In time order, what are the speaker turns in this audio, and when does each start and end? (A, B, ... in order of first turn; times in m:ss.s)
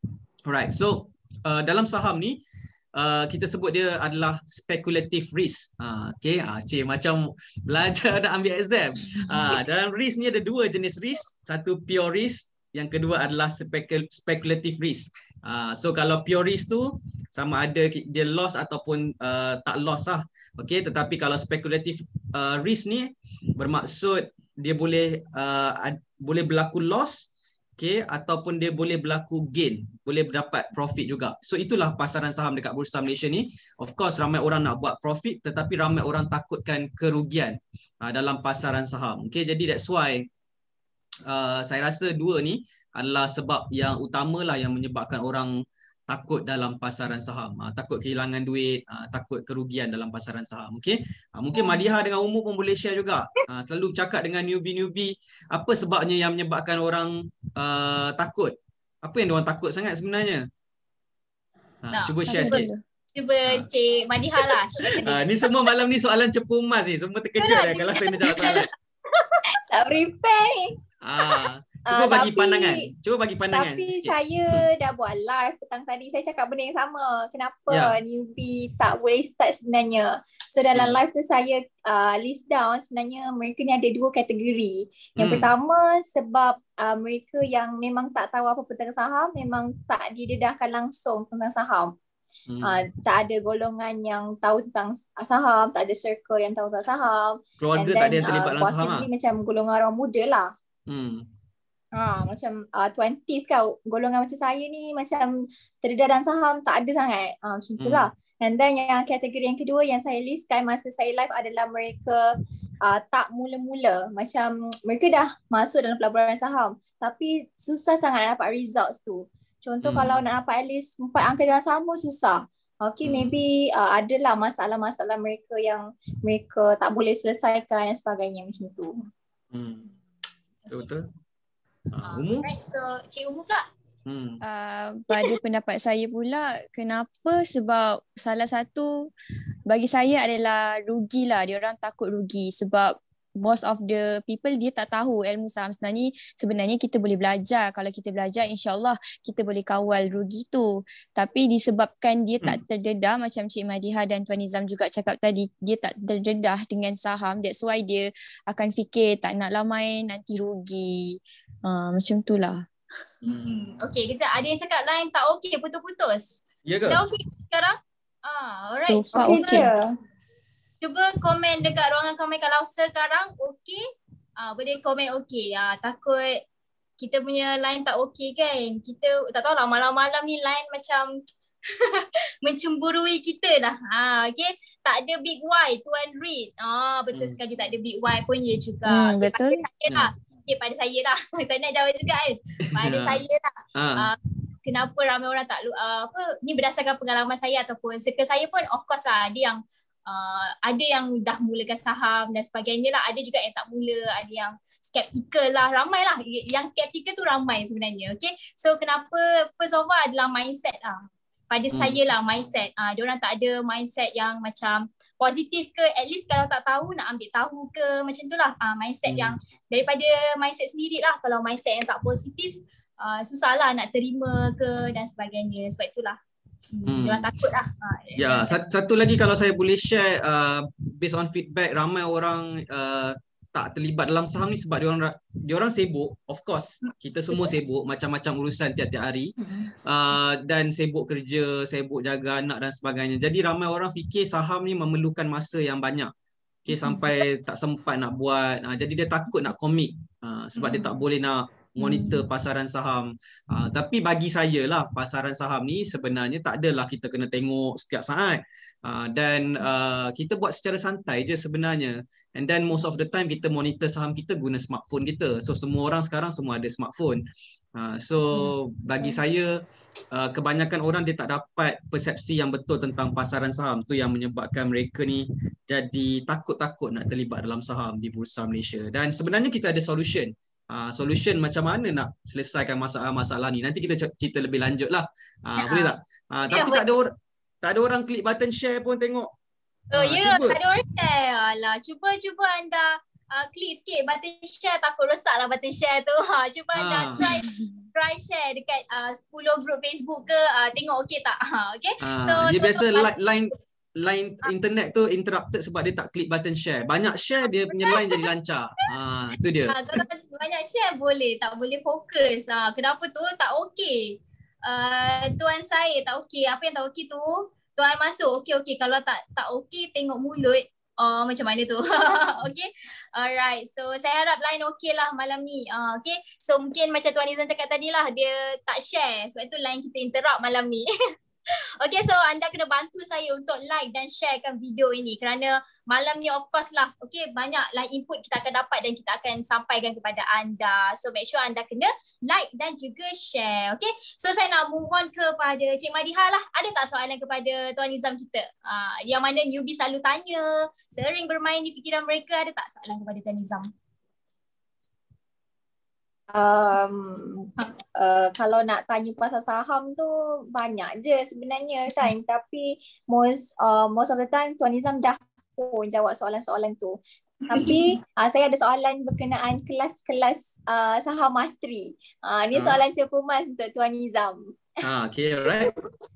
0:00.5-0:02.4 A
0:02.9-0:40.3 A
0:41.3-0:45.5 A
0:46.1-1:00.5 A
1:01.8-1:02.7 A
1:01.9-1:05.2 B
1:02.3-1:02.8 C
1:04.8-1:08.7 A
1:07.4-1:09.4 B
1:09.7-1:10.8 D
1:11.0-1:14.7 A
1:11.9-1:12.9 D
1:13.5-1:31.9 D
1:17.7-1:18.0 A
1:20.8-1:21.0 A
1:25.2-1:25.5 A
1:32.5-1:32.8 A
1:32.6-1:40.5 D
1:37.6-1:39.1 A
1:40.9-1:41.3 A
1:42.0-1:52.2 D
1:47.8-1:48.1 A
1:52.8-2:09.0 D
1:59.8-2:00.2 A
2:03.0-2:03.4 A
2:09.5-2:09.9 A
2:10.7-2:11.1 A
2:11.9-2:12.5 A
2:12.0-2:13.7 B
2:14.1-2:14.4 A
2:14.4-2:19.1 C
2:19.7-2:42.7 C
2:43.2-2:43.8 A
2:43.3-2:49.7 B
2:46.6-2:47.0 A
2:48.8-2:49.7 C
2:49.1-2:49.9 D
2:50.8-2:53.8 B
2:54.4-2:56.4 B
2:57.0-3:01.1 B
3:01.7-3:31.0 B
3:08.9-3:09.6 C
3:12.7-3:13.2 A
3:13.8-3:14.1 A
3:31.5-3:46.2 B
3:39.1-3:39.4 A
3:46.7-3:48.6 B
3:46.9-3:47.3 A
3:48.2-4:06.1 A
4:06.7-4:27.2 A
4:10.6-4:11.0 B
4:27.8-4:29.6 A
4:30.1-4:49.3 A
4:45.6-4:45.9 B
4:46.5-4:47.0 B
4:49.9-5:03.4 B
4:49.9-4:50.6 A
4:56.7-4:57.3 A
4:57.2-4:57.7 C
5:02.0-5:10.0 A
5:07.7-5:08.2 B
5:09.7-5:30.9 B
5:31.8-5:53.7 B
5:56.3-6:14.7 D
6:12.5-6:12.8 A
6:14.8-6:15.7 A